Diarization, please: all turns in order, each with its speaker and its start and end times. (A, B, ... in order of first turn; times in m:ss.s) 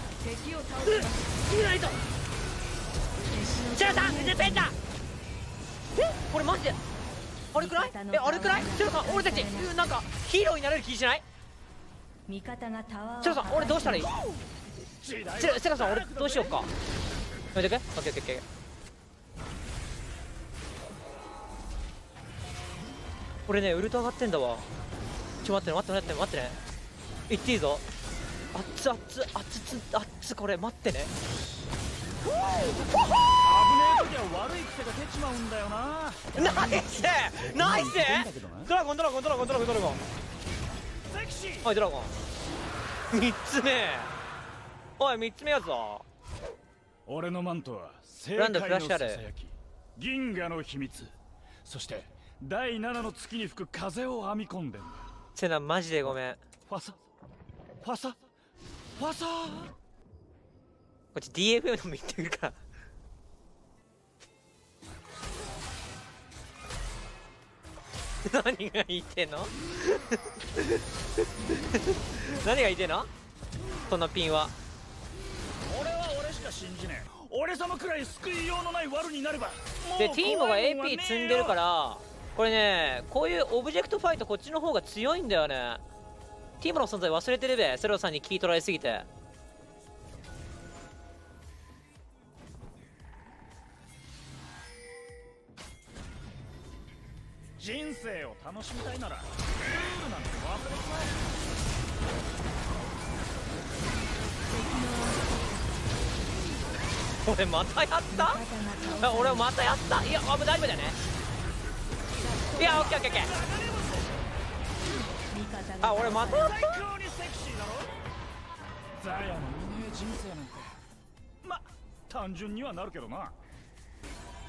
0:00.2-0:01.5 A
0:00.8-0:02.0 B
0:03.2-0:04.7 A
0:03.7-0:04.7 B
0:06.0-0:06.8 B
0:07.5-0:11.2 B
0:07.6-0:09.7 A
0:12.3-0:14.1 A
0:13.2-0:14.1 B
0:13.9-0:14.4 C
0:15.0-0:16.7 C
0:15.4-0:16.7 B
0:17.5-0:18.4 B
0:23.5-0:24.7 B
0:25.4-0:26.6 B
0:27.3-0:27.8 B
0:28.5-0:31.1 B
0:32.3-0:38.7 C
0:36.3-0:40.0 B
0:41.1-0:41.7 C
0:41.6-0:42.1 B
0:43.1-0:44.1 B
0:45.0-0:46.0 B
0:47.1-0:51.1 C
0:48.4-0:49.2 B
0:51.6-0:55.1 C
0:55.3-0:56.4 B
0:56.7-0:57.0 C
0:57.8-0:58.2 C
0:59.0-0:59.7 C
1:01.1-1:02.6 B
1:08.2-1:10.8 B
1:11.5-1:13.1 B
1:13.9-1:14.5 B
1:15.7-1:21.6 C
1:20.0-1:25.8 B
1:26.6-1:29.1 B
1:37.6-1:41.2 C
1:44.5-1:45.8 A
1:47.2-1:48.4 B
1:48.1-1:49.5 A
1:49.0-1:51.0 B
1:52.1-1:52.9 A
1:52.6-1:53.3 B
1:52.6-1:54.1 C
1:55.2-1:56.5 A
1:55.8-1:56.8 B
1:56.3-1:58.0 C
1:59.0-2:00.8 C
2:01.4-2:03.3 C